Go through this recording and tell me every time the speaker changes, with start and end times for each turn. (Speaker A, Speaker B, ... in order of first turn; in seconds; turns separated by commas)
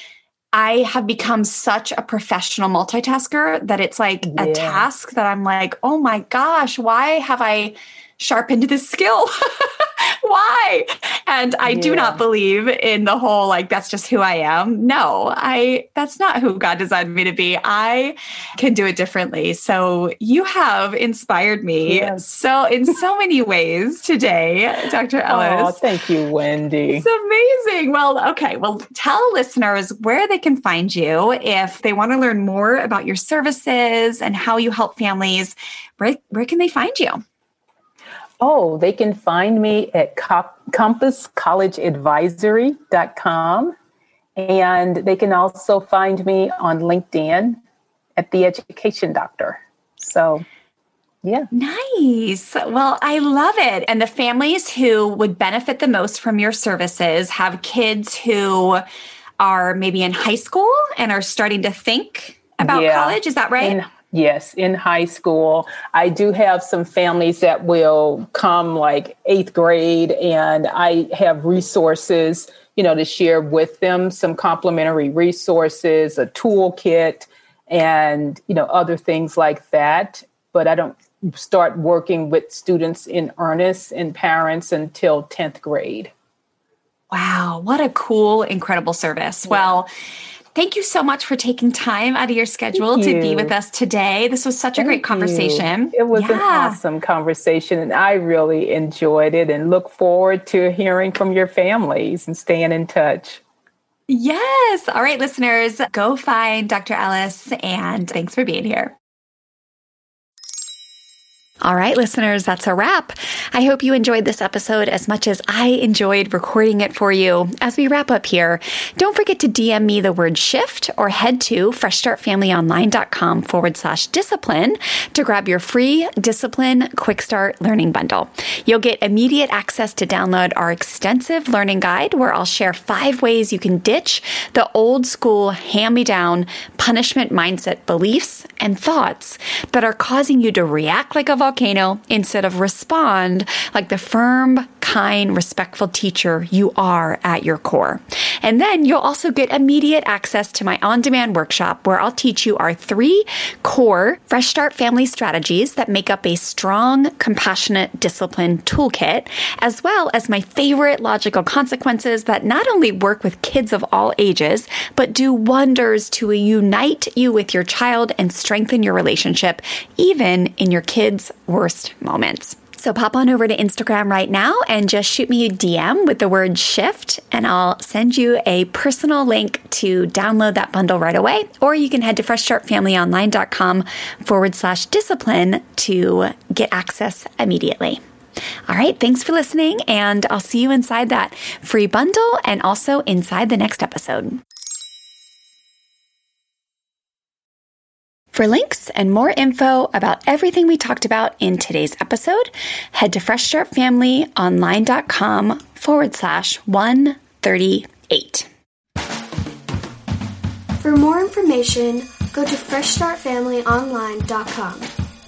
Speaker A: 0.5-25.8, Speaker B: 4.2-4.9, Speaker B: 11.7-12.2, Speaker B: 21.9-22.2, Speaker B: 25.3-27.0, Speaker A: 27.0-37.2, Speaker B: 38.4-43.7, Speaker B: 44.4-47.6, Speaker B: 48.2-50.4, Speaker B: 51.2-51.5, Speaker A: 51.5-58.8, Speaker A: 59.4-63.8, Speaker B: 62.6-86.1, Speaker A: 87.1-89.9, Speaker B: 89.5-89.8, Speaker A: 90.5-96.8, Speaker B: 92.8-93.5, Speaker B: 94.8-103.4, Speaker A: 104.1-108.9, Speaker A: 111.6-188.0, Speaker A: 188.7-194.4, Speaker A: 198.3-208.5, Speaker C: 210.8-214.9